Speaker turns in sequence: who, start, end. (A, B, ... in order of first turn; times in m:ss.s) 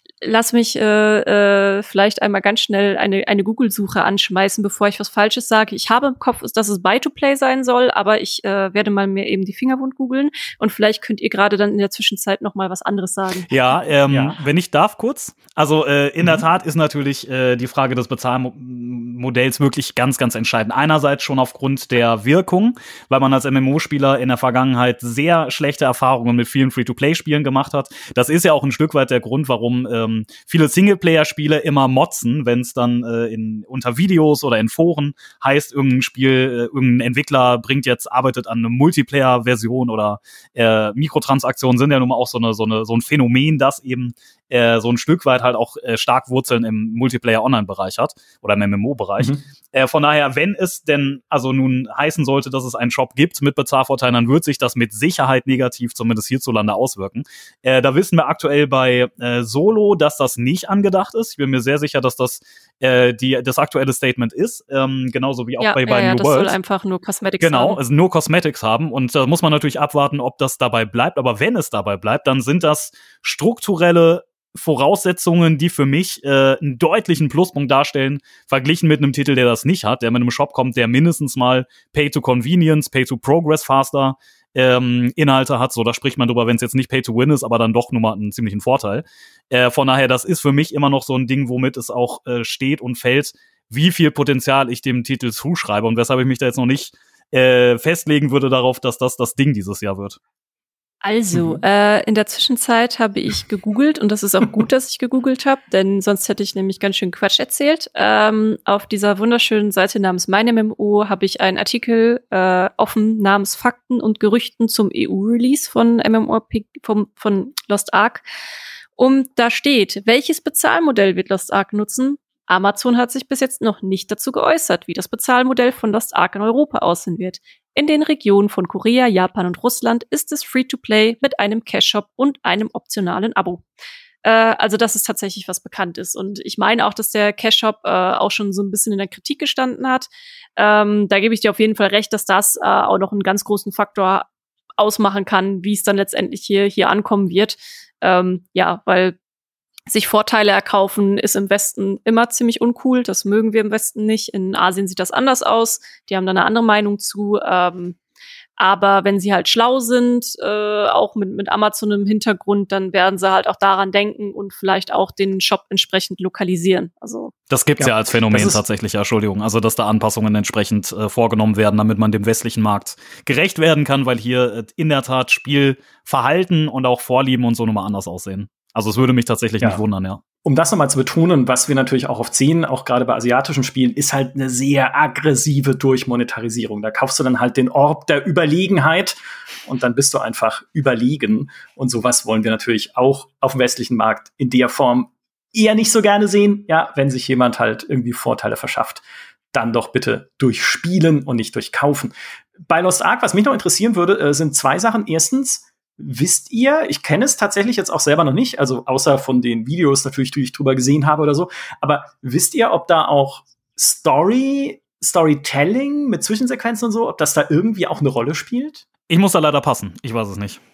0:00.2-0:13.8 A
0:13.5-1:06.5 B
0:14.1-0:14.4 C
0:16.2-0:16.4 C
1:05.6-1:07.8 A
1:07.4-1:40.2 B
1:41.0-1:58.2 A
1:41.3-1:41.6 C
1:59.0-2:13.6 A
2:14.2-2:24.3 A
2:24.8-2:29.2 A
2:29.9-2:38.0 A
2:38.6-2:47.3 A
2:47.5-3:00.2 B
2:47.8-2:48.6 C
3:00.4-3:22.1 C
3:22.6-3:38.8 C
3:39.1-3:40.6 B